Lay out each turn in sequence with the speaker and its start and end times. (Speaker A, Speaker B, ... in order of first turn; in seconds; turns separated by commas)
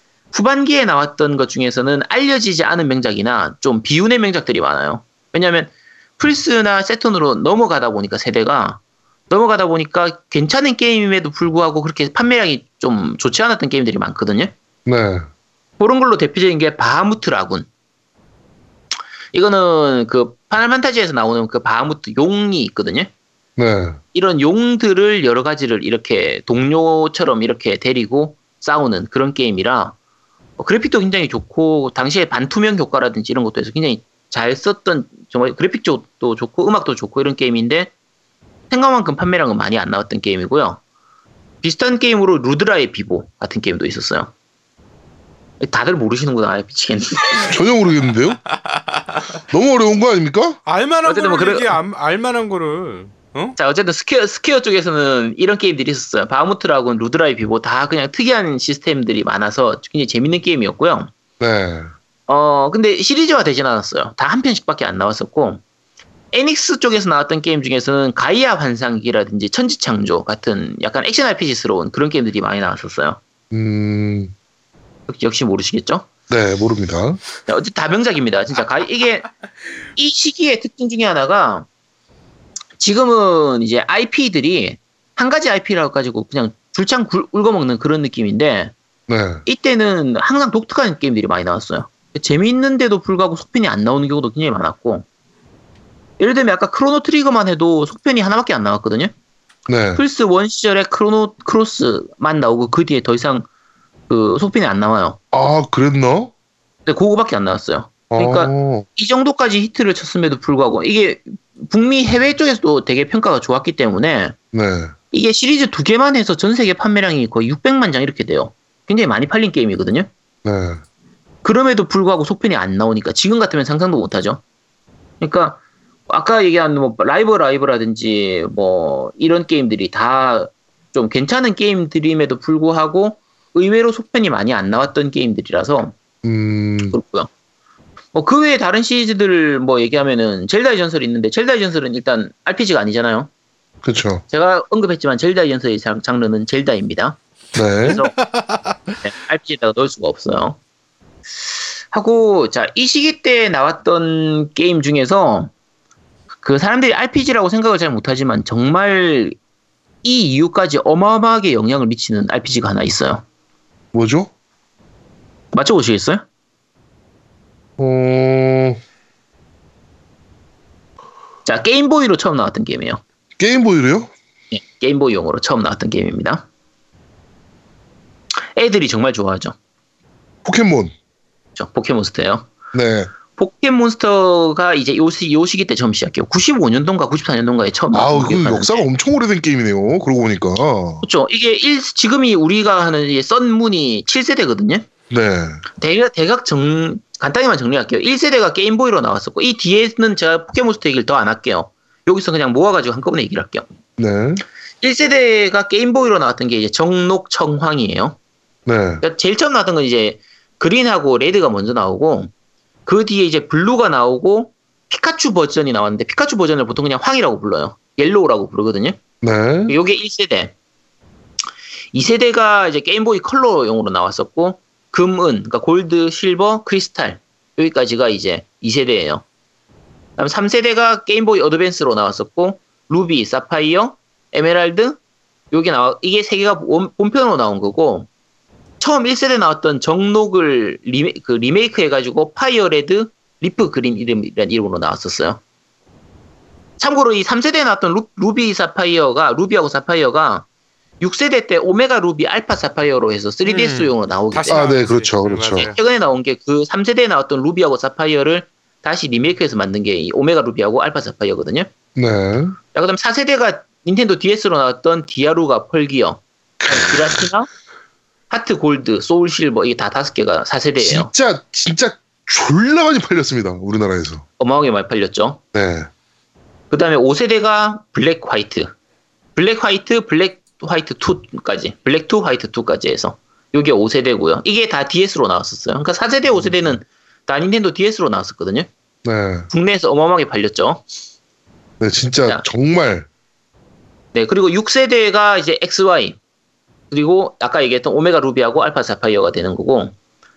Speaker A: 0.3-14.5, Speaker B: 14.9-15.3, Speaker A: 15.8-17.7, Speaker A: 19.3-23.1, Speaker B: 23.6-24.0, Speaker A: 24.1-29.9, Speaker A: 30.6-37.9, Speaker A: 38.7-40.8, Speaker A: 41.6-44.3, Speaker A: 45.6-47.5, Speaker B: 47.5-48.4, Speaker B: 49.5-50.6, Speaker C: 50.7-53.6, Speaker A: 51.0-51.8, Speaker A: 53.6-61.1, Speaker B: 61.4-61.9, Speaker A: 62.3-65.6, Speaker A: 66.3-73.2, Speaker B: 73.5-74.3, Speaker A: 75.1-76.1, Speaker B: 76.3-77.2, Speaker A: 77.5-79.3, Speaker A: 80.0-81.7, Speaker A: 82.8-88.7, Speaker B: 89.1-89.4, Speaker A: 89.5-95.0, Speaker A: 96.2-99.1, Speaker B: 99.7-100.0, Speaker A: 100.0-103.5, Speaker A: 104.1-105.2, Speaker B: 105.3-106.3, Speaker A: 106.9-114.3, Speaker B: 108.1-108.9, Speaker B: 114.5-114.9, Speaker A: 115.1-120.1, Speaker B: 120.4-120.8, Speaker A: 121.4-124.4, Speaker A: 125.2-135.9, Speaker B: 136.2-137.0, Speaker A: 136.9-137.3, Speaker A: 138.1-143.3, Speaker B: 143.8-144.2, Speaker A: 144.3-147.2, Speaker B: 147.5-148.0, Speaker A: 147.8-148.1, Speaker C: 148.3-148.7, Speaker A: 149.0-150.6, Speaker A: 151.9-155.5, Speaker A: 156.4-159.4, Speaker A: 160.0-163.2, Speaker B: 163.9-164.3, Speaker A: 165.5-166.2, Speaker B: 167.8-168.8, Speaker A: 171.4-173.0, Speaker B: 173.4-174.1, Speaker A: 174.5-176.5, Speaker A: 178.6-179.6, Speaker B: 180.4-180.9, Speaker A: 181.6-182.5, Speaker B: 182.7-183.1, Speaker A: 183.3-188.8, Speaker B: 187.9-191.0, Speaker A: 191.0-194.9, Speaker B: 195.1-195.6, Speaker A: 195.8-203.7, Speaker B: 204.0-204.4, Speaker A: 204.8-208.2, Speaker B: 208.7-209.0, Speaker A: 209.0-212.3, Speaker A: 212.9-219.0, Speaker B: 219.2-219.8, Speaker A: 219.7-220.5, Speaker A: 221.9-229.2, Speaker A: 230.2-235.0, Speaker A: 235.5-238.1, Speaker A: 238.8-245.4, Speaker A: 246.8-250.4, Speaker A: 251.0-254.7, Speaker C: 253.4-255.8, Speaker B: 254.5-255.7, Speaker A: 255.5-261.7, Speaker B: 262.0-262.6, Speaker A: 262.7-267.5, Speaker B: 266.6-267.2, Speaker A: 268.3-271.1, Speaker B: 270.8-274.2, Speaker A: 274.4-275.4, Speaker B: 275.5-275.9, Speaker A: 276.7-278.7, Speaker A: 279.4-288.7, Speaker B: 289.1-289.5, Speaker A: 289.5-290.8, Speaker B: 291.8-293.1, Speaker A: 294.1-296.2, Speaker A: 296.9-299.9